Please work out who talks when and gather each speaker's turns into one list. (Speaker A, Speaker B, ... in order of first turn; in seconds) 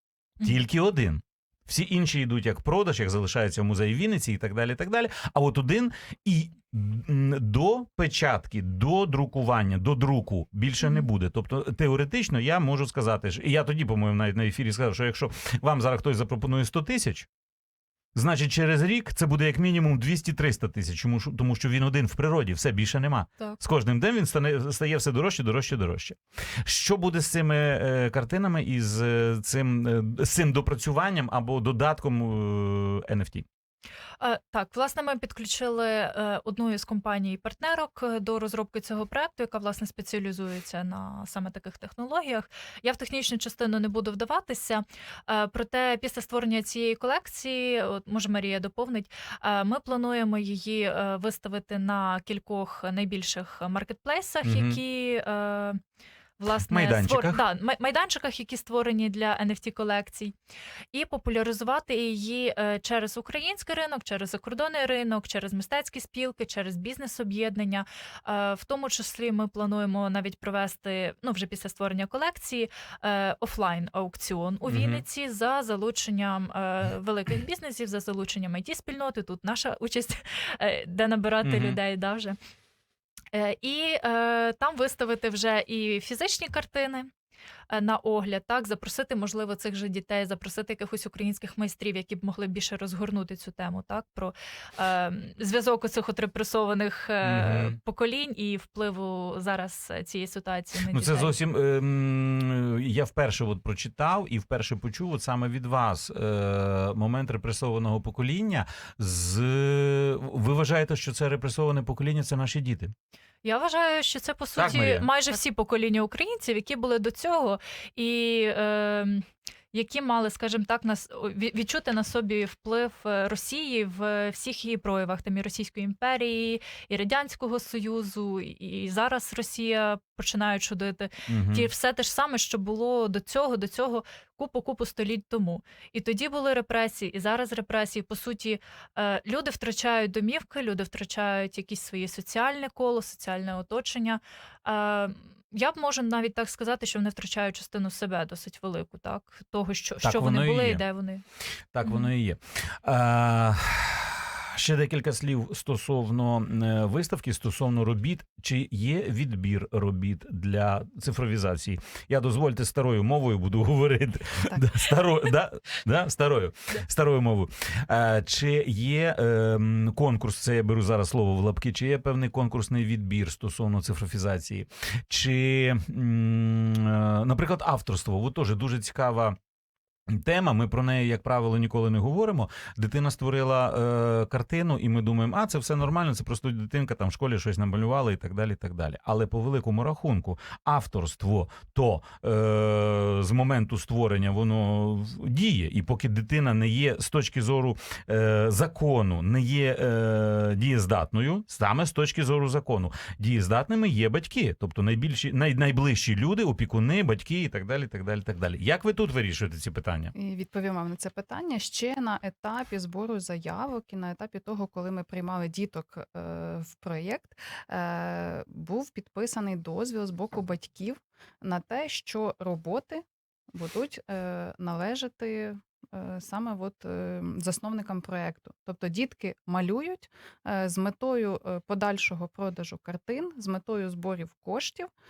Speaker A: 0.4-17.3, 18.1-33.5, 54.4-54.8, 56.7-57.4, 74.7-75.0, 81.4-81.8, 97.2-97.8, 100.9-112.9, 114.6-115.1, 131.3-131.7, 150.0-150.8, 151.7-179.4, 180.1-210.1
Speaker B: 10.8-11.1, 34.2-55.8, 56.4-60.3, 60.9-82.4, 83.3-87.1, 87.7-101.3, 113.4-151.2
Speaker C: 210.1-234.9